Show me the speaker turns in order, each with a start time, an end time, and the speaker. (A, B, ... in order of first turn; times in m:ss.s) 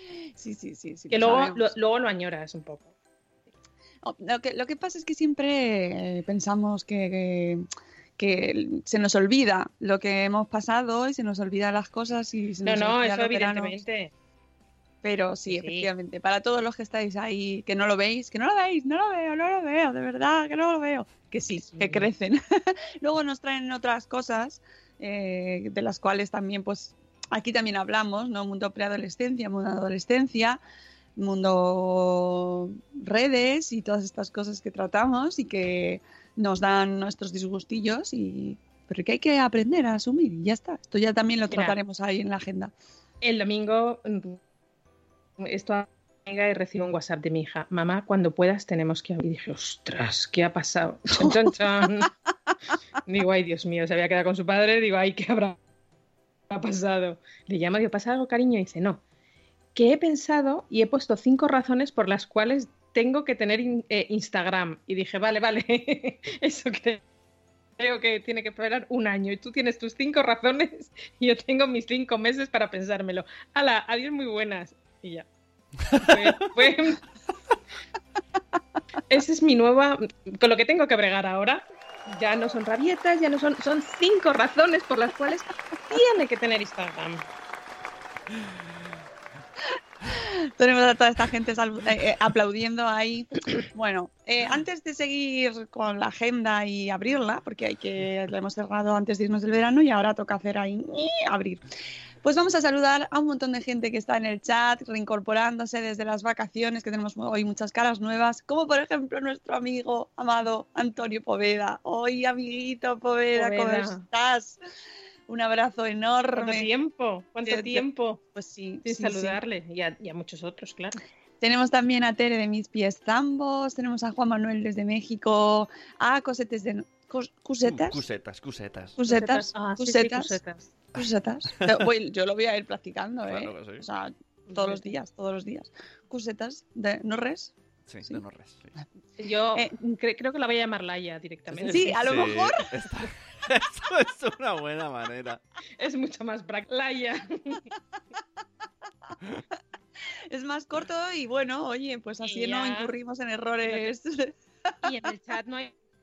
0:00.4-0:01.7 A
0:01.1-0:02.9 B
0:04.0-0:07.6 A
0:08.2-0:13.8 A
0:12.6-0:14.1 B
0:15.0-0:30.6 A
0:15.5-0:15.9 B
0:21.7-0:22.1 B
0:31.2-0:42.7 A
0:41.5-0:41.8 B
0:43.2-0:44.4 B
0:45.4-0:52.1 B
0:51.1-0:51.4 A
0:53.1-0:55.6 B
0:56.5-0:59.0 B
0:59.8-1:07.0 B
1:07.8-1:15.2 B
1:15.9-1:16.3 C
1:16.0-1:17.0 B
1:19.1-1:27.2 B
1:30.1-1:41.6 A
1:42.2-1:54.6 A
1:53.4-1:54.0 B
1:55.3-1:56.7 A
1:56.4-1:58.2 B
1:57.4-1:59.4 A
1:58.8-2:01.0 B
2:01.4-2:08.0 A
2:07.6-2:09.0 C
2:09.0-2:10.4 A
2:09.0-2:10.7 B
2:10.9-2:17.5 A
2:13.2-2:13.9 C
2:14.5-2:14.9 B
2:17.9-2:18.8 C
2:19.2-2:22.3 B
2:21.5-2:25.4 C
2:21.7-2:22.7 A
2:25.8-2:27.6 B
2:30.3-2:34.4 A
2:32.2-2:32.9 B
2:33.6-2:33.9 B
2:34.8-2:35.7 B